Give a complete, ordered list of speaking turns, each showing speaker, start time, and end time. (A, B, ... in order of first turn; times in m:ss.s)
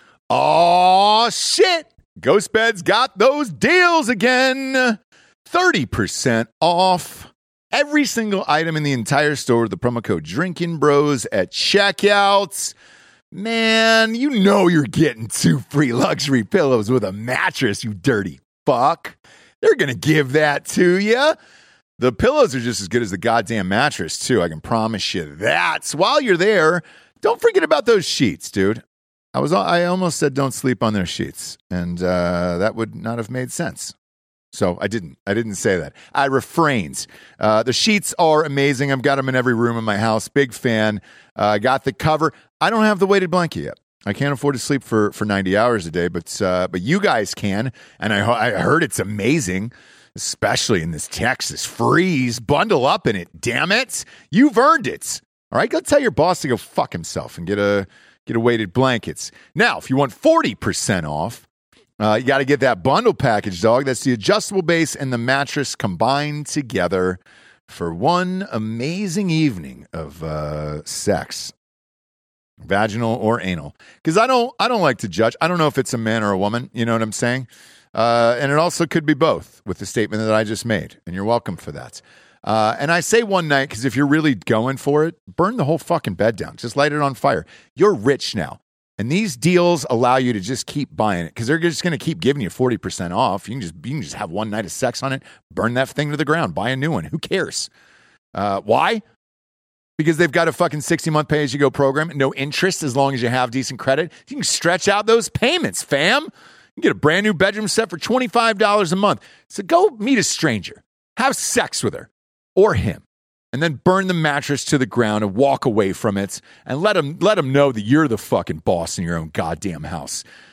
0:00.3-0:12.8 A
0:13.3-0:21.4 A
0:22.0-0:28.8 A
0:29.3-0:33.9 A
0:34.5-1:01.5 A
1:02.0-1:11.5 A
1:12.6-1:37.7 A
1:38.3-1:39.0 A
1:40.0-2:00.2 A